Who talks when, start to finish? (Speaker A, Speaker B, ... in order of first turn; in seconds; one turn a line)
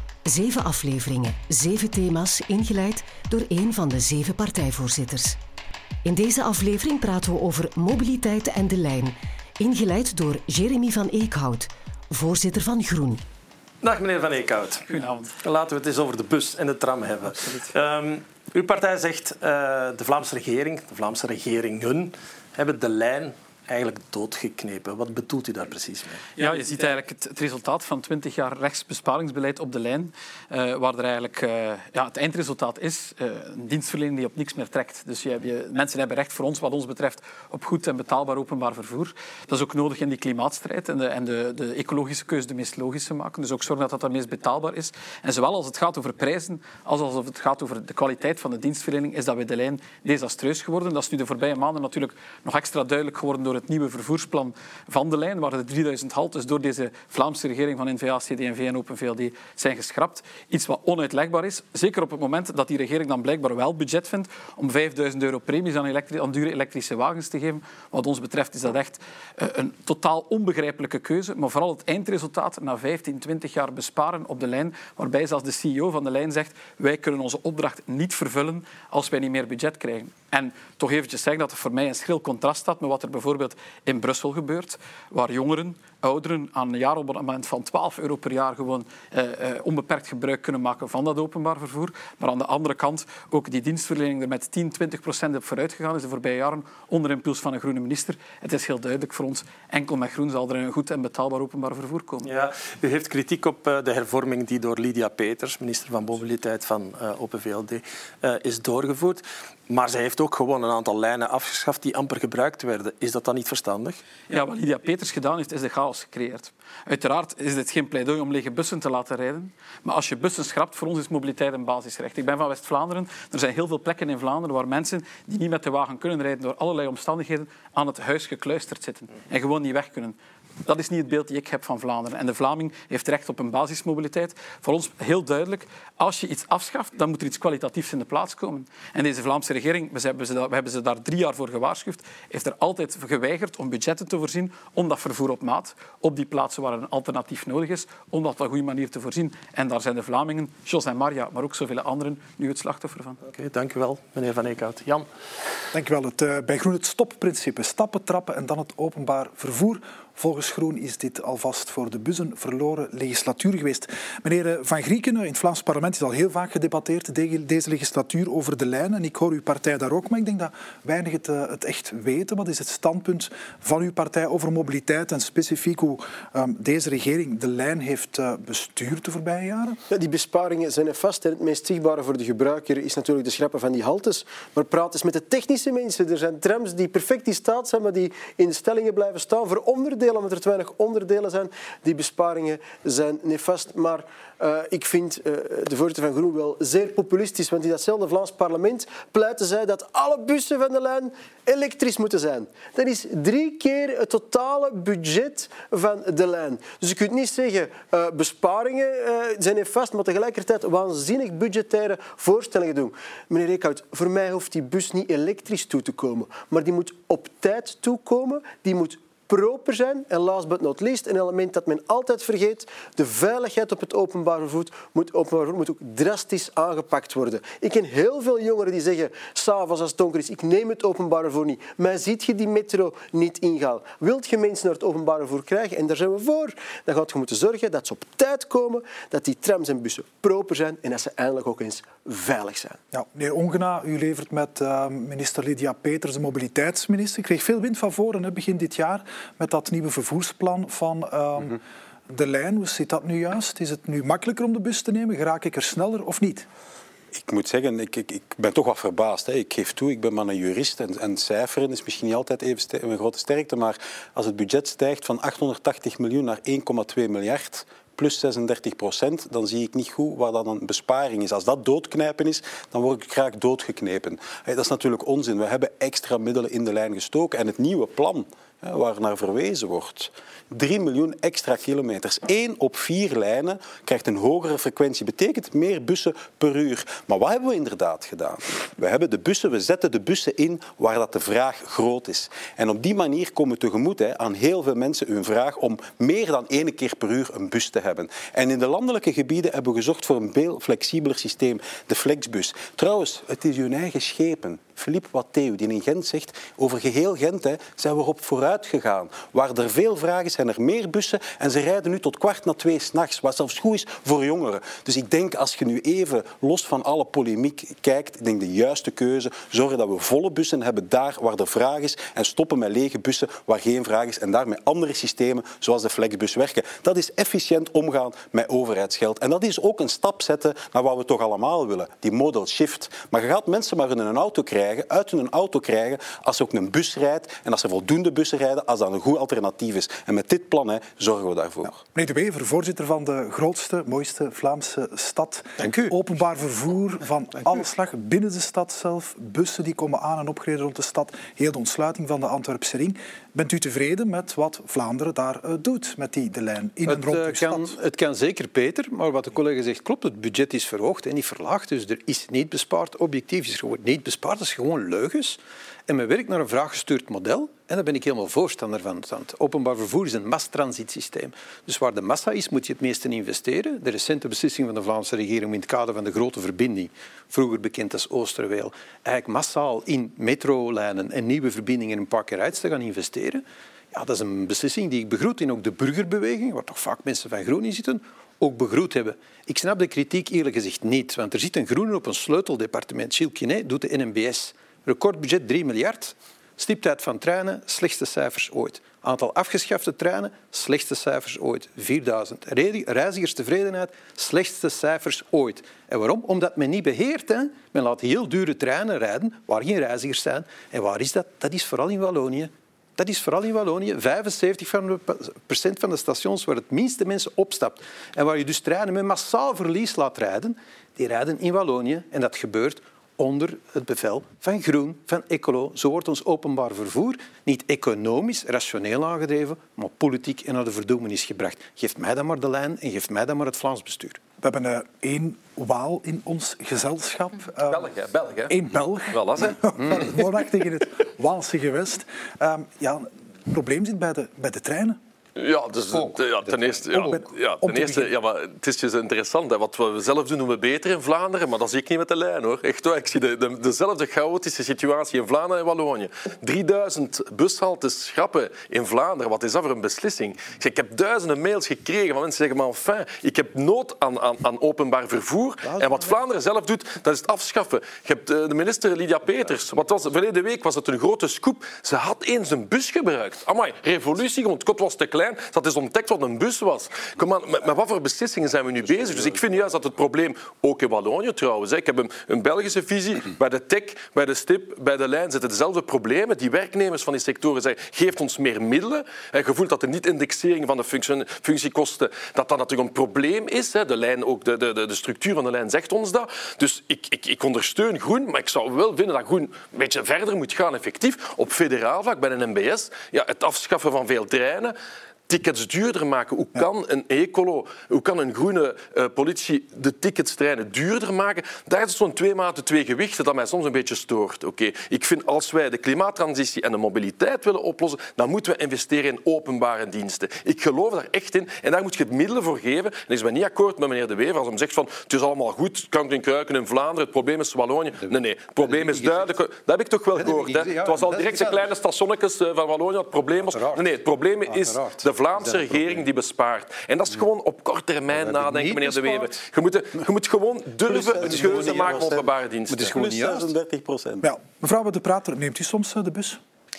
Speaker A: 0.3-5.4
Speaker A: 6.0-13.2
Speaker B: 13.8-14.8
Speaker C: 14.9-15.3
Speaker B: 15.4-26.2
Speaker C: 26.4-102.3
Speaker B: 102.2-114.0
Speaker C: 114.3-153.2
Speaker B: 153.3-155.1
Speaker D: 155.7-179.8
Speaker E: 179.9-242.8
Speaker D: 242.9-251.6
Speaker D: 252.1-256.5
Speaker F: 257.1-341.8
Speaker D: 341.9-357.7
Speaker G: 345.6-345.9
Speaker G: 356.9-434.2
Speaker D: 434.4-437.9
Speaker H: 437.7-438.6
Speaker D: 438.5-445.0
Speaker H: 439.1-439.6
Speaker H: 445.4-504.8
Speaker G: 445.9-446.8
Speaker D: 446.9-448.1
Speaker H: 505.3-543.0
Speaker G: 528.1-529.3
Speaker G: 530.1-531.7
Speaker G: 533.4-533.9
Speaker G: 534.5-536.0
Speaker G: 538.1-539.4
Speaker F: 541.0-544.3
Speaker G: 541.0-543.5
Speaker D: 544.2-546.4